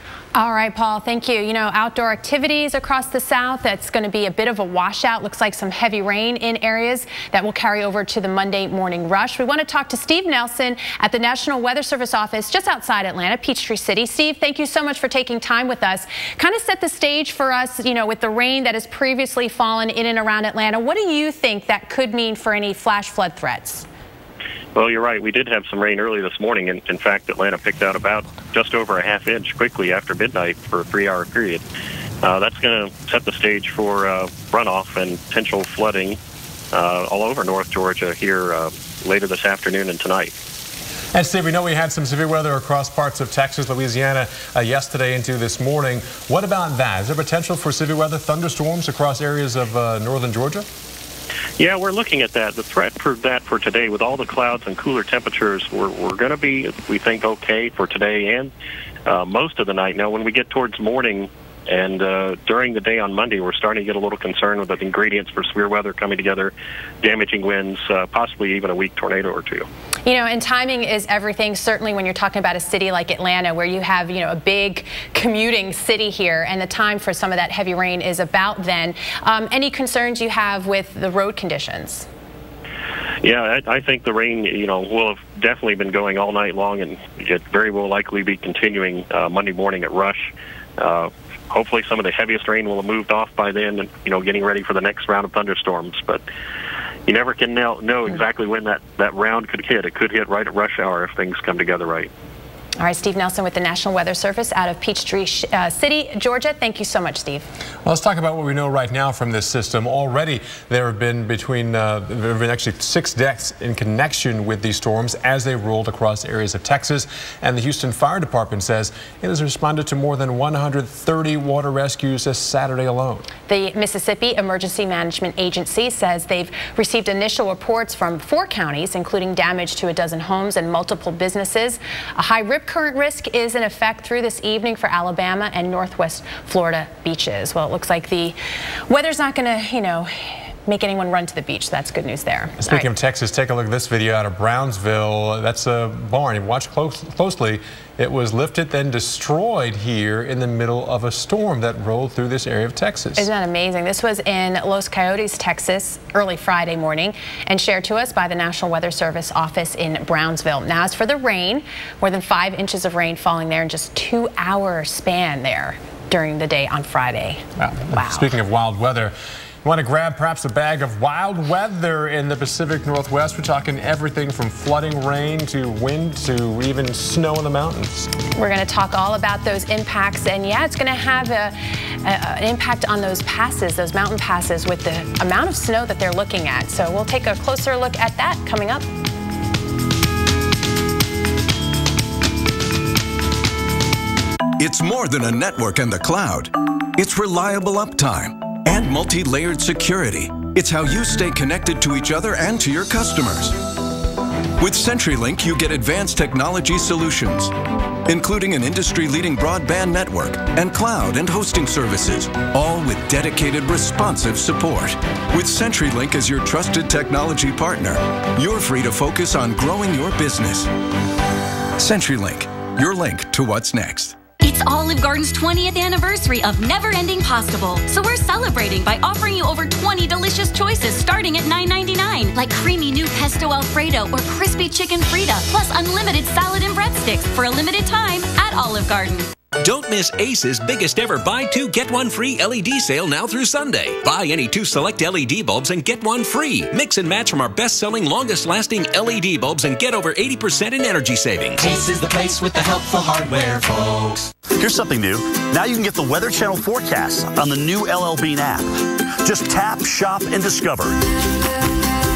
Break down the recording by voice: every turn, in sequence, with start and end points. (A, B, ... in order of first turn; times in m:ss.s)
0:00.4-0:23.9 A
0:24.8-0:31.6 B
0:32.2-0:36.2 B
0:36.7-0:40.3 B
0:41.1-0:50.7 C
0:51.6-0:58.5 B
0:59.1-1:09.7 B
1:10.0-1:22.1 A
1:23.2-1:36.2 B
1:37.1-1:42.1 B
1:42.8-1:47.5 A
1:47.8-2:03.3 C
2:03.5-2:18.4 A
2:18.9-2:22.9 A
2:22.6-2:33.3 C
2:33.2-2:48.3 A
2:47.6-2:58.1 C
2:58.4-3:08.9 A
3:14.6-3:23.6 D
3:24.6-3:27.5 D
3:28.1-3:40.7 D
3:41.8-3:44.2 D
3:44.4-3:59.3 E
3:59.6-4:11.6 F
4:11.6-4:14.3 G
4:14.6-4:18.7 H
4:19.2-4:21.0 H